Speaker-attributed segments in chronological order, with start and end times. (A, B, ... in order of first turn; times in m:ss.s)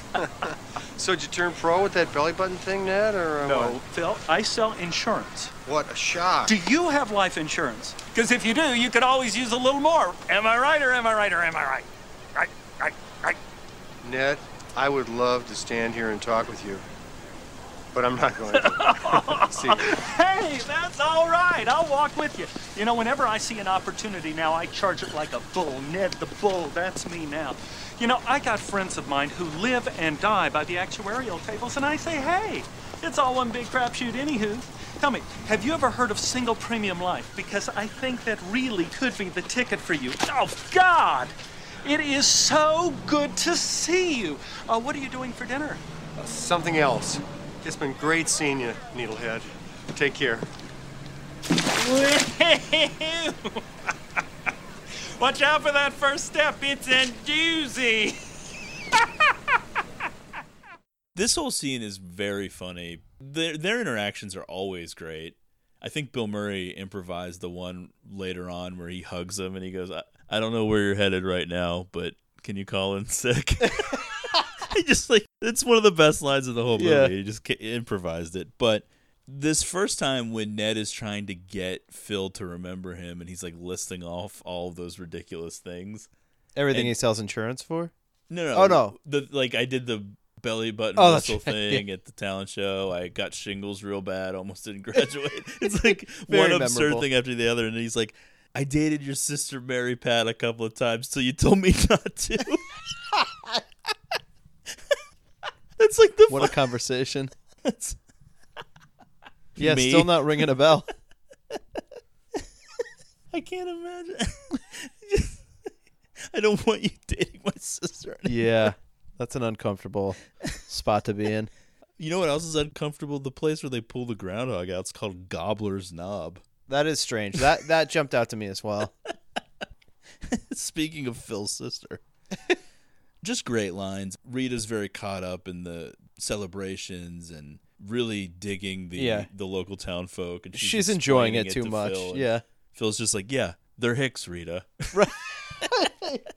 0:00.2-0:03.8 A
0:03.4-0:05.5 B
0:05.6-0:06.6 A
0:06.5-0:13.4 B
0:14.0-0:16.8 A
0:17.9-0:19.9 A
0:18.5-0:45.8 B
0:46.2-0:50.5 A
0:51.7-0:53.6 B
0:55.2-0:58.2 B
1:01.1-1:14.0 C
1:14.6-1:26.1 C
1:16.8-1:17.1 D
1:26.6-1:27.9 D
1:28.3-1:42.6 C
1:28.5-1:28.9 D
1:31.0-1:31.8 D
1:35.8-1:37.1 D
1:45.8-1:46.5 C
1:46.3-1:47.3 D
1:47.6-1:48.0 C
1:49.6-1:50.4 C
1:49.6-1:50.9 D
1:53.3-1:55.4 C
1:56.3-1:58.7 C
1:58.2-2:01.5 D
2:02.0-2:06.4 C
2:06.7-2:08.9 D
2:10.3-2:12.0 C
2:13.2-2:24.9 C
2:19.0-2:19.3 D
2:20.5-2:22.4 D
2:24.9-2:26.2 D